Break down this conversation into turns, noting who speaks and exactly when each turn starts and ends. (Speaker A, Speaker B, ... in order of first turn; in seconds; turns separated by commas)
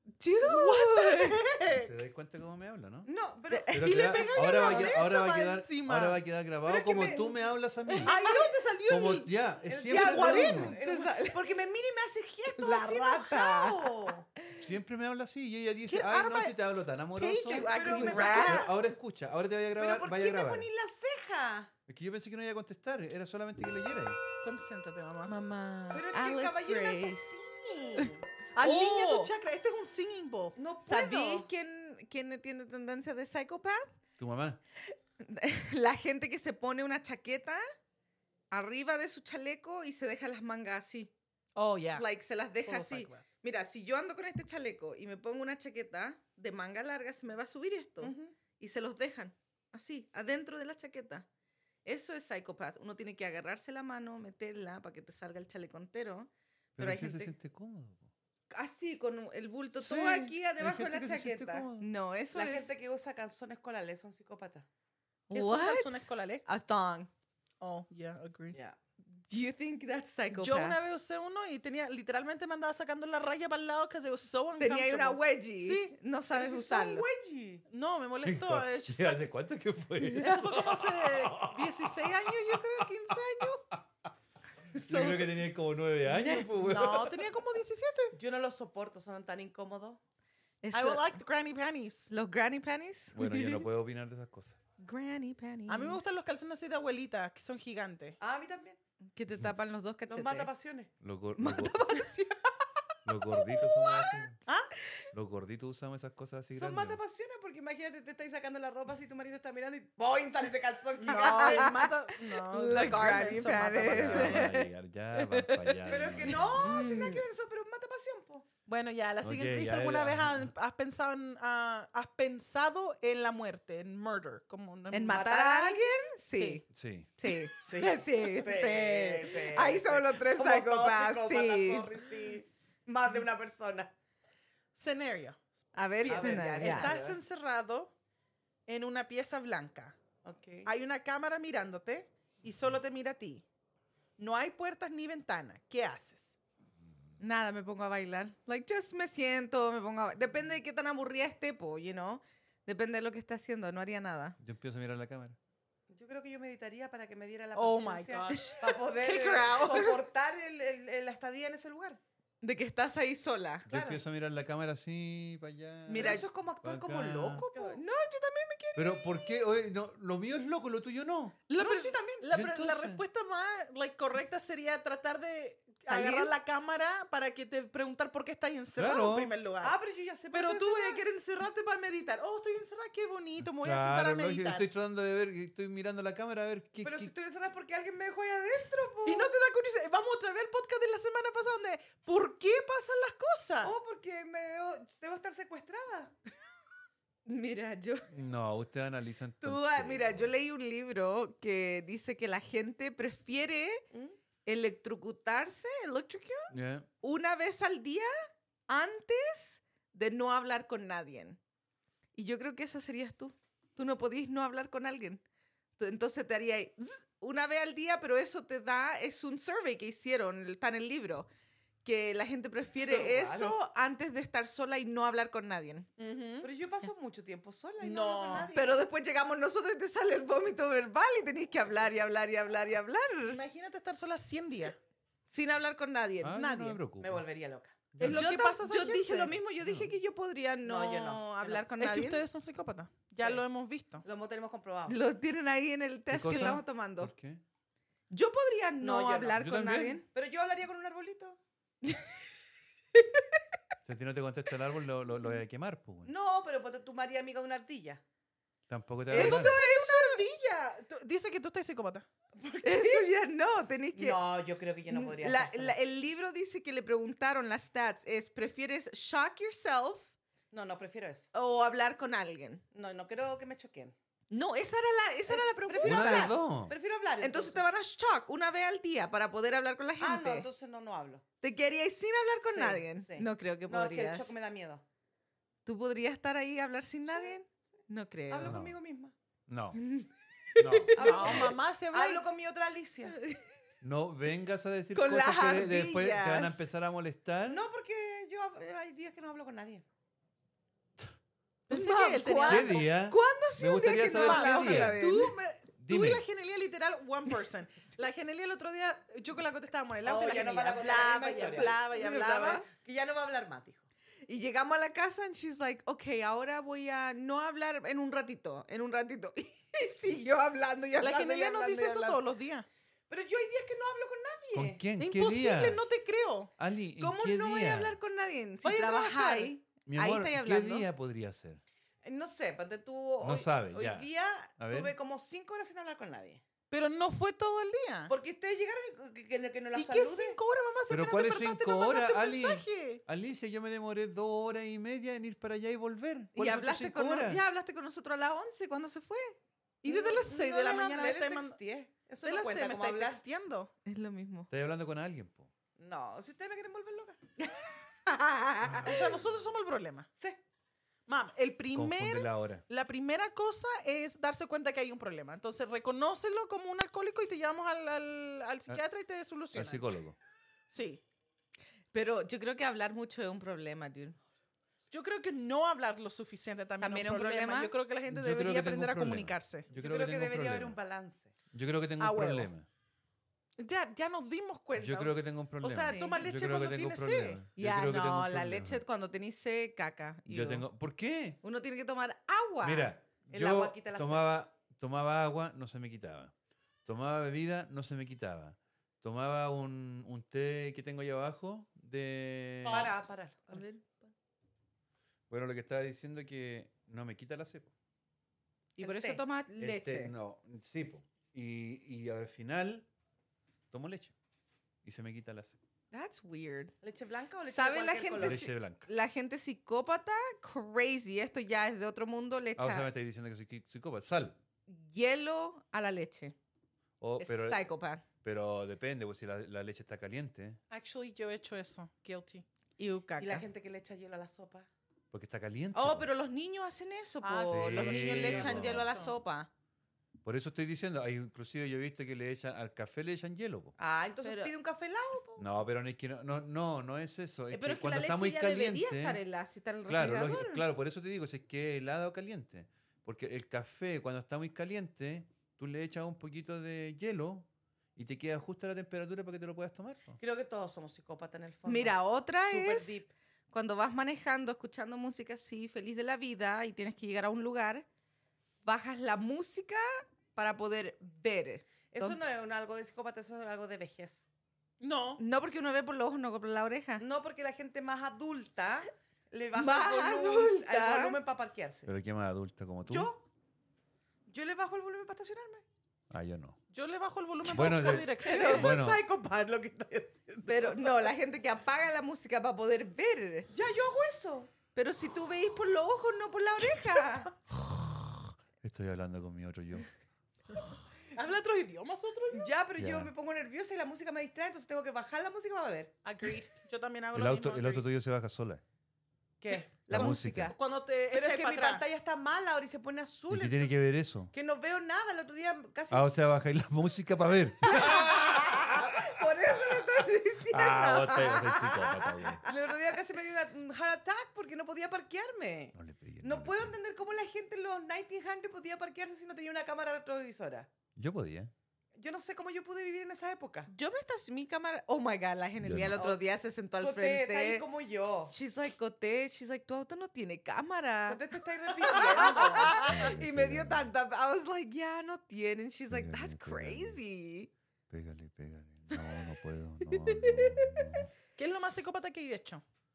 Speaker A: 0.2-1.8, Speaker B: 0.4-1.9, Speaker C: 1.7-3.1, Speaker D: 3.0-4.9, Speaker A: 3.5-3.8, Speaker C: 3.7-10.8, Speaker B: 3.8-6.2, Speaker A: 4.4-4.7, Speaker D: 6.6-7.5, Speaker B: 8.0-11.1, Speaker D: 8.0-8.5, Speaker D: 9.6-14.2, Speaker A: 10.8-11.4, Speaker A: 12.4-14.6, Speaker C: 14.6-20.7, Speaker B: 15.9-16.6, Speaker B: 17.1-18.7, Speaker D: 17.5-18.7, Speaker D: 19.8-21.7, Speaker C: 21.9-24.2, Speaker B: 24.4-25.3, Speaker A: 25.3-27.3, Speaker D: 25.9-28.2, Speaker B: 28.5-30.6, Speaker A: 28.6-29.3, Speaker D: 30.6-31.5, Speaker A: 30.8-33.9, Speaker C: 34.2-34.6, Speaker A: 34.9-37.6, Speaker A: 38.5-41.1, Speaker B: 41.5-42.0, Speaker A: 41.9-51.2, Speaker B: 42.6-43.2, Speaker D: 48.0-48.3, Speaker A: 51.9-57.3, Speaker C: 56.8-58.1, Speaker A: 58.5-62.7, Speaker C: 59.7-61.9, Speaker D: 62.3-64.7, Speaker A: 65.3-67.1, Speaker B: 65.3-66.4, Speaker B: 67.6-68.6, Speaker D: 68.5-68.8, Speaker A: 69.1-70.8, Speaker B: 70.3-76.0, Speaker A: 74.6-77.0, Speaker D: 76.3-77.6, Speaker B: 77.7-79.3, Speaker C: 78.2-83.8, Speaker B: 80.2-83.7, Speaker C: 84.7-87.3, Speaker B: 84.7-85.4, Speaker A: 86.1-86.5, Speaker B: 86.6-88.2, Speaker D: 88.2-90.0, Speaker A: 90.6-91.2, Speaker B: 90.7-92.1, Speaker A: 92.1-93.6, Speaker C: 93.1-94.6, Speaker A: 94.8-96.0, Speaker B: 95.7-98.2, Speaker D: 98.2-98.8, Speaker A: 99.1-100.5, Speaker D: 100.1-100.9, Speaker C: 101.0-102.1, Speaker A: 101.3-102.3, Speaker C: 103.0-104.4, Speaker A: 103.3-104.2, Speaker B: 104.5-104.7, Speaker C: 105.1-107.0, Speaker D: 106.5-111.8, Speaker B: 111.0-114.6, Speaker A: 111.1-114.7, Speaker C: 113.7-116.9, Speaker B: 115.7-116.5, Speaker D: 115.8-118.5, Speaker A: 116.6-117.2, Speaker B: 118.7-125.2, Speaker C: 119.2-120.5, Speaker A: 124.9-126.6, Speaker D: 125.1-125.8, Speaker B: 126.3-126.6, Speaker C: 126.7-127.1, Speaker A: 127.2-131.9, Speaker D: 127.5-133.9, Speaker B: 134.7-135.4, Speaker A: 135.7-136.9, Speaker B: 136.0-137.9, Speaker D: 136.0-137.2, Speaker B: 138.7-139.9, Speaker D: 140.2-140.7, Speaker B: 140.6-143.4, Speaker B: 144.2-146.4, Speaker A: 147.2-154.4, Speaker C: 154.4-155.4, Speaker D: 155.9-162.0, Speaker B: 157.5-159.9, Speaker A: 159.0-159.9, Speaker A: 162.4-163.7, Speaker C: 163.7-167.4, Speaker D: 163.7-164.0, Speaker A: 165.9-166.3, Speaker D: 165.9-167.8, Speaker A: 167.5-169.2, Speaker C: 168.8-171.4, Speaker B: 171.5-179.7, Speaker D: 171.6-172.3, Speaker C: 172.3-173.0, Speaker A: 175.8-176.3, Speaker C: 178.7-179.3, Speaker D: 179.6-181.0, Speaker B: 180.3-184.7, Speaker C: 183.4-187.1, Speaker D: 186.8-189.3, Speaker B: 189.0-193.7, Speaker D: 193.6-196.1, Speaker A: 197.2-198.1, Speaker C: 198.1-200.3, Speaker A: 199.4-203.8, Speaker D: 203.9-204.2, Speaker A: 204.4-208.1, Speaker C: 206.5-206.9, Speaker A: 208.7-211.4, Speaker A: 212.2-215.2, Speaker A: 215.8-221.3, Speaker A: 221.8-225.9, Speaker D: 222.7-223.6, Speaker B: 226.0-226.5, Speaker D: 226.4-228.8, Speaker B: 227.8-228.5, Speaker A: 228.5-233.4, Speaker B: 233.3-234.8, Speaker A: 235.3-236.8, Speaker C: 236.2-237.2, Speaker D: 237.0-237.9, Speaker C: 237.9-238.3, Speaker B: 238.0-239.4, Speaker A: 238.0-242.2, Speaker C: 239.6-239.9, Speaker D: 240.6-241.6, Speaker B: 241.8-244.0, Speaker D: 243.2-243.4, Speaker D: 244.0-245.0, Speaker A: 244.9-247.1, Speaker C: 246.1-247.4, Speaker A: 248.1-250.1, Speaker D: 248.8-249.4, Speaker C: 249.4-250.0, Speaker D: 250.1-251.4, Speaker A: 251.8-252.1, Speaker A: 252.9-253.2, Speaker C: 253.8-256.1, Speaker D: 256.0-258.0, Speaker C: 258.7-259.6, Speaker A: 259.1-260.2, Speaker B: 259.1-262.1, Speaker D: 262.4-263.1, Speaker A: 262.6-264.2, Speaker D: 263.9-265.8, Speaker A: 264.9-270.1, Speaker D: 270.5-271.3, Speaker A: 271.3-272.6, Speaker D: 272.7-273.9, Speaker A: 274.3-276.4, Speaker D: 275.3-277.6, Speaker C: 275.8-276.8, Speaker A: 277.2-280.5, Speaker D: 280.0-281.2, Speaker A: 281.4-284.3, Speaker D: 282.4-284.8, Speaker A: 285.6-288.6, Speaker D: 287.1-287.5, Speaker D: 288.3-289.1, Speaker C: 288.4-288.8, Speaker C: 289.5-289.8, Speaker A: 289.7-291.0, Speaker C: 290.6-291.6, Speaker D: 290.9-293.2, Speaker B: 291.0-292.2, Speaker A: 293.1-293.4, Speaker C: 293.8-297.6, Speaker A: 294.9-296.6, Speaker D: 297.5-299.9, Speaker B: 301.7-302.9, Speaker A: 301.7-305.3, Speaker C: 302.5-305.0, Speaker B: 304.1-312.6, Speaker C: 305.8-306.2, Speaker D: 310.0-313.9, Speaker A: 312.1-312.6, Speaker A: 314.3-322.2, Speaker B: 321.0-322.7, Speaker D: 323.1-324.8, Speaker C: 324.5-325.8, Speaker B: 325.0-326.5, Speaker C: 326.6-328.0, Speaker A: 327.0-330.9, Speaker B: 328.6-329.5, Speaker C: 329.9-331.6, Speaker D: 332.0-336.4, Speaker C: 333.2-334.9, Speaker B: 336.7-338.1, Speaker D: 338.1-340.4, Speaker B: 339.7-343.0, Speaker C: 340.9-347.4, Speaker A: 346.3-349.4, Speaker B: 349.8-351.6, Speaker D: 349.9-353.2, Speaker B: 352.2-353.7, Speaker A: 353.8-354.5, Speaker C: 354.5-355.5, Speaker D: 355.8-357.2, Speaker A: 357.4-358.9, Speaker C: 358.6-359.3, Speaker B: 358.9-360.1, Speaker D: 360.1-360.4, Speaker B: 361.1-369.9, Speaker C: 361.7-362.6, Speaker C: 369.5-370.2, Speaker B: 370.7-371.0, Speaker A: 371.9-374.2, Speaker B: 374.9-379.7, Speaker A: 376.8-377.7, Speaker C: 378.1-380.8, Speaker D: 379.7-381.3, Speaker C: 381.5-382.7, Speaker B: 382.0-382.5, Speaker B: 383.6-387.4, Speaker C: 384.8-388.8, Speaker A: 385.9-386.2, Speaker A: 387.6-390.7, Speaker C: 390.3-391.4, Speaker A: 391.4-392.9, Speaker C: 392.6-396.3, Speaker D: 393.3-394.3, Speaker C: 396.8-403.0, Speaker B: 402.6-403.0, Speaker D: 402.7-403.6, Speaker A: 403.5-404.1, Speaker C: 405.3-407.7, Speaker A: 408.8-410.1, Speaker D: 408.8-409.2, Speaker C: 409.6-412.9, Speaker C: 413.7-414.1, Speaker C: 414.8-415.6, Speaker A: 415.9-416.7, Speaker D: 416.8-418.4, Speaker A: 417.4-422.9, Speaker C: 418.1-418.9, Speaker C: 422.6-424.4, Speaker A: 424.7-426.3, Speaker C: 427.0-427.6, Speaker A: 427.2-428.0, Speaker C: 428.2-430.6, Speaker B: 430.7-432.4, Speaker A: 432.8-433.5, Speaker D: 433.2-434.7, Speaker C: 435.1-436.1, Speaker A: 435.7-439.5, Speaker B: 437.2-439.2, Speaker C: 437.5-438.9, Speaker C: 440.2-443.8, Speaker D: 443.8-445.5, Speaker A: 444.2-444.5, Speaker C: 445.4-449.2, Speaker A: 447.5-450.6, Speaker C: 449.9-460.2, Speaker D: 460.2-463.1, Speaker A: 461.6-467.9, Speaker A: 468.6-472.2, Speaker D: 471.9-474.2, Speaker B: 474.8-475.2, Speaker A: 475.2-477.0, Speaker D: 477.0-481.9, Speaker A: 479.6-481.2, Speaker C: 481.8-483.1, Speaker D: 482.9-483.2, Speaker D: 484.3-485.6, Speaker C: 486.1-486.6, Speaker B: 486.7-488.8, Speaker C: 487.5-489.0, Speaker D: 488.2-491.1, Speaker A: 490.4-493.5, Speaker D: 493.5-494.5, Speaker A: 494.7-497.3, Speaker D: 496.6-497.6, Speaker C: 498.6-499.9, Speaker B: 501.1-502.5, Speaker D: 502.3-505.9, Speaker C: 502.8-503.1, Speaker B: 506.0-507.8, Speaker C: 507.1-508.6, Speaker D: 509.4-509.8, Speaker A: 509.9-510.6, Speaker C: 509.9-510.5, Speaker B: 509.9-511.8, Speaker D: 511.1-516.0, Speaker C: 513.3-514.3, Speaker C: 515.9-519.7, Speaker A: 517.6-521.7, Speaker D: 517.8-518.1, Speaker C: 520.5-522.4, Speaker D: 521.3-530.7, Speaker C: 525.7-526.7, Speaker C: 531.0-531.5, Speaker D: 531.9-533.7, Speaker A: 533.7-537.6, Speaker C: 535.6-536.0, Speaker D: 535.9-536.2, Speaker D: 536.8-538.3, Speaker A: 538.3-541.2, Speaker D: 541.1-543.0, Speaker A: 541.8-547.5, Speaker C: 542.7-543.9, Speaker C: 545.9-547.0, Speaker C: 547.9-551.1, Speaker A: 550.0-551.0, Speaker B: 551.4-552.6